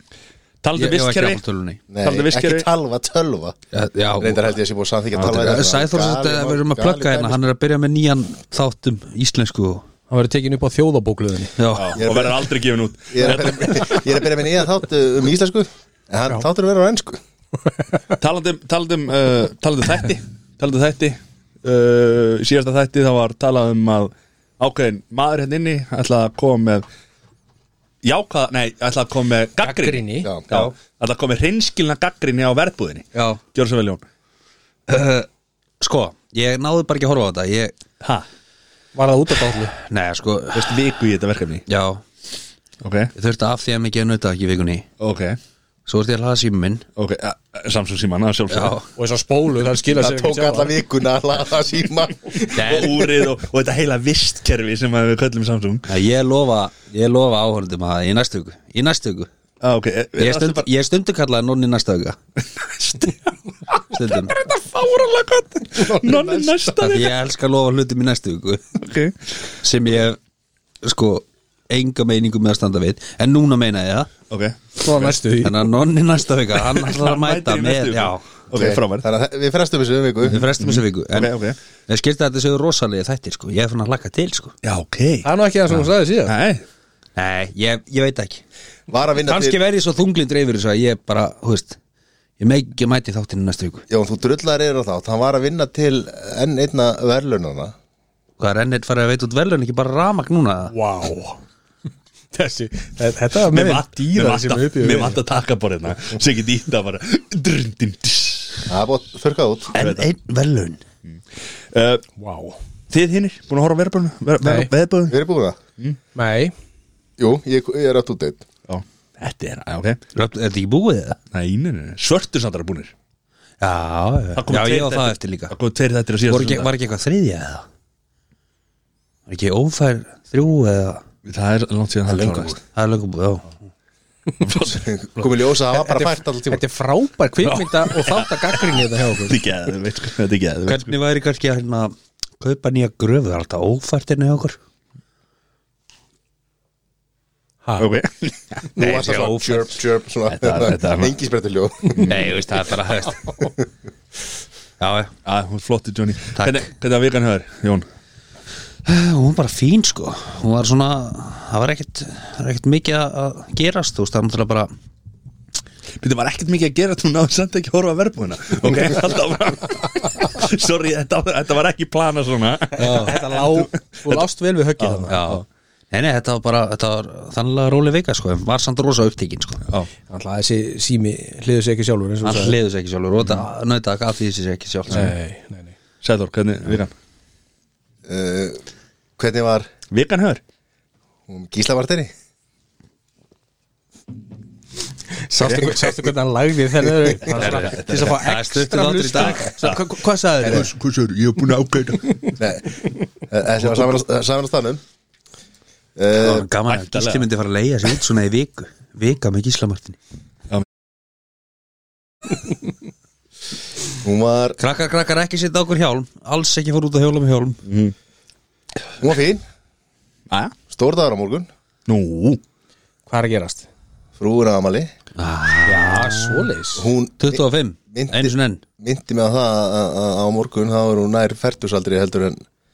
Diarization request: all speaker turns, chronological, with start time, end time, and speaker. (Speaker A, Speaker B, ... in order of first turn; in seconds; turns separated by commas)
Speaker A: 0.6-1.4, Speaker B: 0.8-1.8, Speaker C: 1.9-3.6, Speaker A: 2.0-2.7, Speaker B: 3.7-4.5, Speaker C: 4.2-7.4, Speaker B: 5.2-9.8, Speaker D: 10.1-11.5, Speaker B: 11.6-12.1, Speaker A: 11.7-14.0, Speaker C: 11.9-12.4, Speaker C: 13.1-17.2, Speaker A: 18.2-26.8, Speaker A: 28.0-34.0, Speaker D: 29.6-30.3, Speaker C: 30.2-30.6, Speaker B: 34.9-35.3, Speaker B: 35.8-37.8, Speaker A: 38.0-38.2, Speaker D: 38.9-39.7, Speaker B: 39.8-40.8, Speaker A: 40.5-41.6, Speaker B: 41.7-42.0, Speaker A: 42.8-43.1, Speaker B: 43.1-44.9, Speaker A: 45.0-45.4, Speaker B: 45.9-46.9, Speaker A: 47.0-48.8, Speaker B: 48.5-48.8, Speaker D: 48.9-50.7, Speaker C: 49.9-52.8, Speaker A: 52.5-55.9, Speaker B: 52.5-53.0, Speaker B: 55.9-59.3, Speaker A: 59.6-60.6, Speaker B: 60.2-62.2, Speaker A: 62.4-67.1, Speaker B: 63.9-64.3, Speaker C: 66.0-66.5, Speaker B: 66.8-68.7, Speaker A: 68.8-69.2, Speaker B: 69.6-70.2, Speaker B: 70.8-74.1, Speaker A: 74.3-75.1, Speaker D: 74.8-75.5, Speaker B: 75.4-78.3, Speaker A: 76.7-79.1, Speaker C: 78.5-80.4, Speaker B: 80.2-84.5, Speaker A: 80.3-81.6, Speaker A: 84.6-86.6, Speaker D: 85.2-86.3, Speaker B: 87.2-88.4, Speaker C: 88.9-89.6, Speaker B: 89.2-91.8, Speaker B: 92.4-93.8, Speaker C: 93.9-97.7, Speaker B: 98.4-100.7, Speaker D: 100.7-101.4, Speaker D: 102.3-105.2, Speaker A: 103.5-108.7, Speaker C: 108.7-109.7, Speaker B: 109.7-110.8, Speaker A: 109.8-110.1, Speaker A: 111.0-112.0, Speaker D: 112.2-112.6, Speaker A: 112.9-115.2, Speaker D: 114.4-114.7, Speaker C: 115.1-115.6, Speaker D: 116.1-116.5, Speaker C: 117.2-118.4, Speaker A: 118.7-120.0, Speaker B: 120.1-121.2, Speaker A: 121.3-122.9, Speaker B: 123.6-125.5, Speaker A: 124.3-126.7, Speaker B: 126.2-127.6, Speaker B: 129.3-131.0, Speaker A: 131.2-132.5, Speaker C: 132.1-132.6, Speaker B: 132.6-133.5, Speaker A: 134.4-134.8, Speaker C: 134.7-136.6, Speaker D: 135.7-139.4, Speaker A: 137.4-140.9, Speaker B: 140.7-144.6, Speaker A: 147.8-148.7, Speaker C: 148.8-152.4, Speaker B: 148.8-149.8, Speaker A: 150.3-151.1, Speaker A: 151.9-152.2, Speaker B: 152.0-153.4, Speaker B: 154.8-155.1, Speaker A: 155.2-157.8, Speaker B: 156.3-156.6, Speaker B: 158.8-164.7, Speaker A: 166.0-174.2, Speaker D: 172.7-175.2, Speaker B: 172.8-173.1, Speaker A: 174.8-175.4, Speaker B: 175.1-179.6, Speaker D: 180.1-182.6, Speaker B: 182.2-185.1, Speaker A: 183.2-183.5, Speaker D: 184.9-185.7, Speaker A: 186.0-186.9, Speaker C: 188.1-188.6, Speaker C: 189.2-189.7, Speaker A: 189.9-190.4, Speaker C: 191.3-192.1, Speaker D: 195.3-200.7, Speaker A: 195.4-195.7, Speaker B: 197.3-199.5, Speaker A: 197.4-198.2, Speaker A: 199.4-199.8, Speaker A: 200.4-202.3, Speaker C: 202.4-204.8, Speaker A: 203.6-204.0, Speaker C: 205.9-206.4, Speaker B: 206.2-210.0, Speaker A: 206.7-207.3, Speaker C: 214.0-214.6, Speaker B: 214.6-217.6, Speaker A: 217.7-217.9, Speaker C: 219.0-219.4, Speaker A: 220.3-220.5, Speaker C: 220.7-221.5, Speaker A: 221.9-222.4, Speaker D: 223.1-223.7, Speaker C: 224.2-224.9, Speaker B: 225.2-226.5, Speaker D: 225.6-226.9, Speaker C: 226.8-232.4, Speaker B: 227.2-228.6